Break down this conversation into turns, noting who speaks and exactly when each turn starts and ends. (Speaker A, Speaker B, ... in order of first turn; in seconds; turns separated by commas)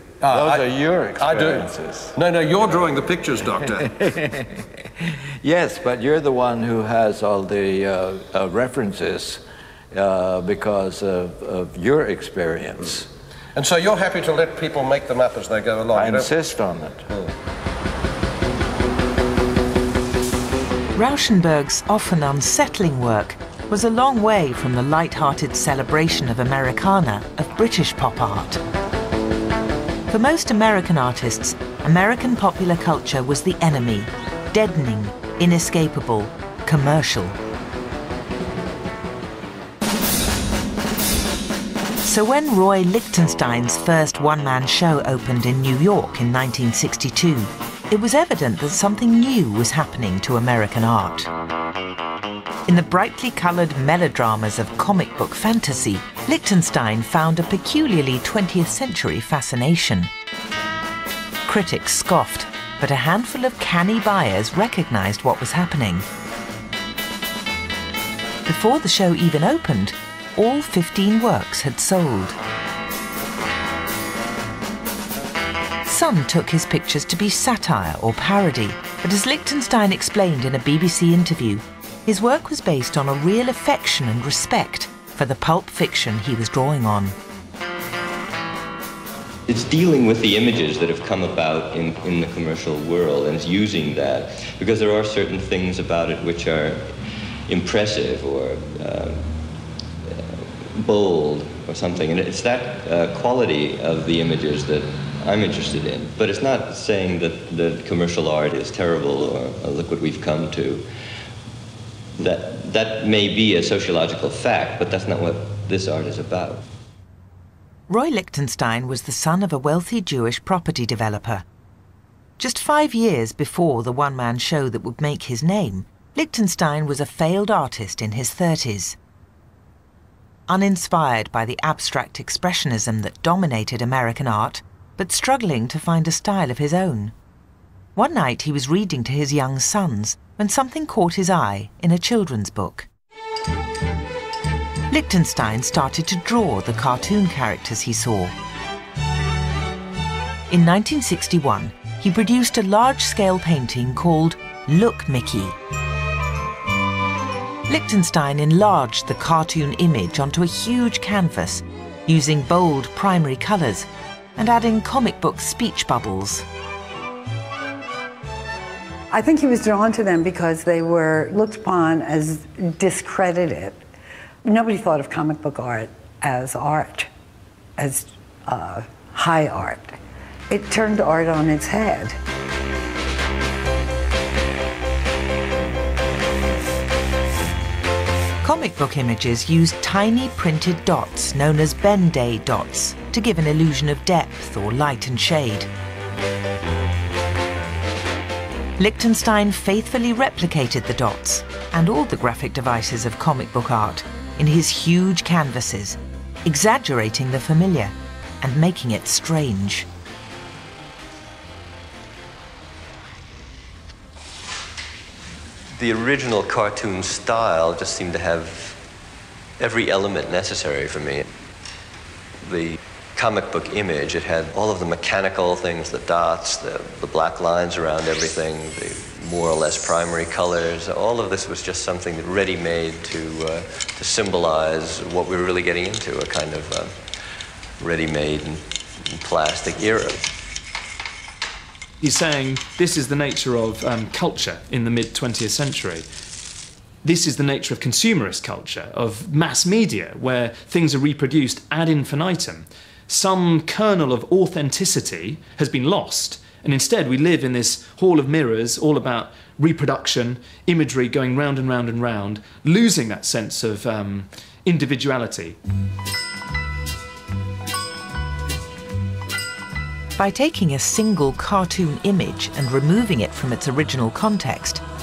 Speaker A: 0.2-2.7, Speaker B: 0.3-3.9, Speaker A: 3.4-4.1, Speaker A: 5.4-9.4, Speaker A: 9.9-13.1, Speaker B: 13.6-16.3, Speaker A: 15.9-17.0, Speaker C: 21.0-28.6, Speaker C: 30.1-37.4, Speaker C: 42.0-51.3, Speaker C: 52.7-60.1, Speaker C: 61.5-66.0, Speaker C: 68.5-72.4, Speaker C: 75.8-87.2, Speaker D: 89.5-96.9, Speaker D: 97.5-99.3, Speaker D: 100.2-110.8, Speaker D: 112.2-116.6, Speaker C: 117.9-121.4, Speaker C: 122.4-129.0, Speaker C: 130.5-137.1, Speaker C: 138.0-142.9, Speaker C: 144.9-148.3, Speaker C: 150.5-155.6, Speaker C: 157.7-166.5, Speaker E: 169.1-173.8, Speaker E: 174.4-177.1, Speaker E: 177.8-179.9, Speaker E: 180.5-182.2, Speaker C: 188.4-195.7, Speaker C: 198.8-209.9, Speaker D: 215.7-218.8, Speaker D: 219.6-221.3, Speaker D: 222.4-236.9, Speaker D: 237.8-240.2, Speaker F: 242.0-246.1, Speaker F: 247.0-265.6, Speaker C: 270.2-274.8